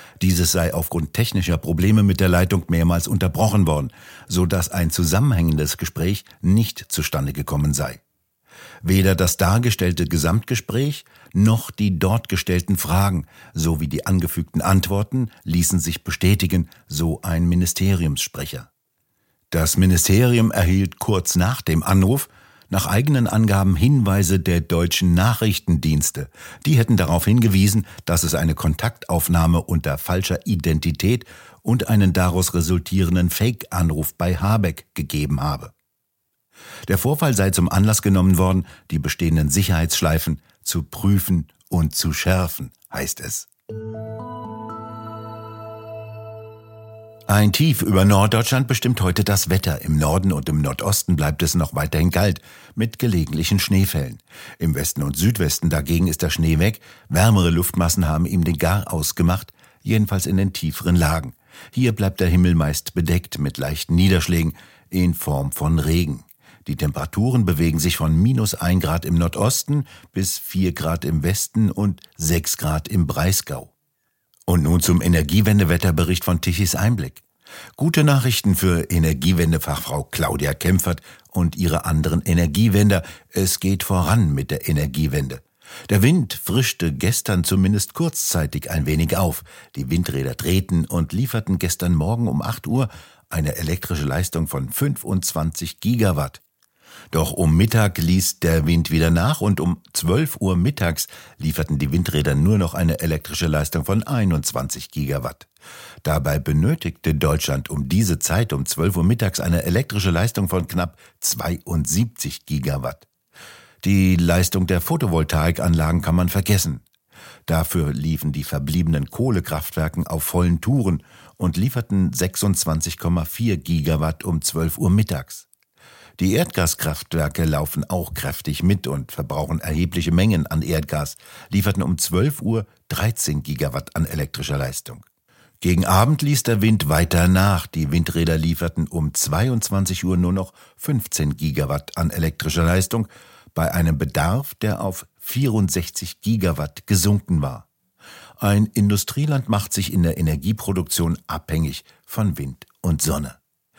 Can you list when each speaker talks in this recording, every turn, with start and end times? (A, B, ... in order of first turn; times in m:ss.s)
0:00.2-0:08.0 A
0:08.8-0:18.7 A
0:19.5-0:35.7 A
0:36.9-0:43.5 A
0:47.3-1:13.7 A
1:14.5-1:17.2 A
1:17.8-1:36.4 A
1:37.1-1:45.5 A
1:46.0-1:53.0 A
1:53.8-1:56.8 A
1:57.5-2:05.5 A
2:06.2-2:15.0 A
2:15.6-2:27.6 A
2:28.4-2:33.4 A